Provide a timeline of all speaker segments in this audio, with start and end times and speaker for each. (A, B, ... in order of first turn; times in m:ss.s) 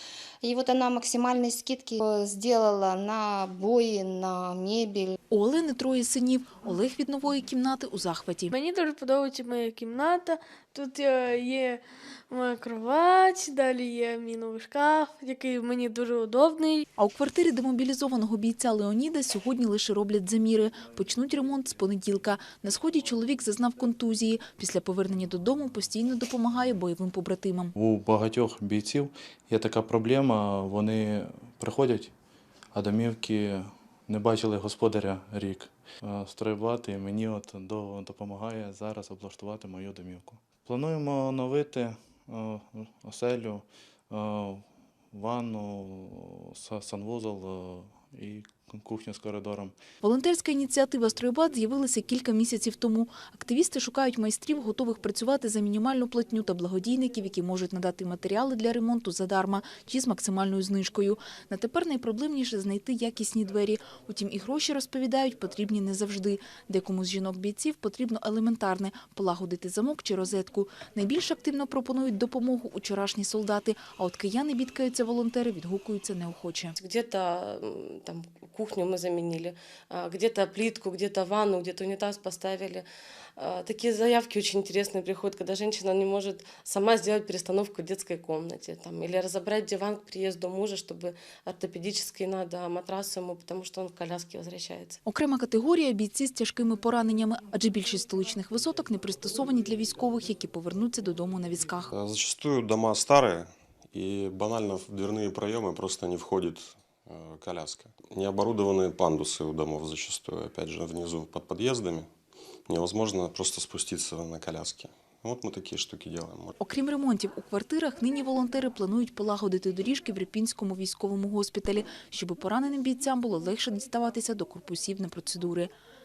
0:00.4-0:05.2 A
0:05.3-0:08.5 B
0:08.5-0:16.8 C
0:17.0-0:27.7 B
0:27.8-0:32.0 D
0:32.7-0:33.6 D
0:34.1-0:35.5 D
0:36.2-0:44.6 D
0:45.2-0:49.7 D
0:50.0-1:16.7 B
1:16.8-1:22.8 E
1:23.4-1:35.0 E
1:35.0-1:41.9 B
1:41.9-1:52.1 F
1:52.7-1:56.6 F
1:56.6-2:05.7 B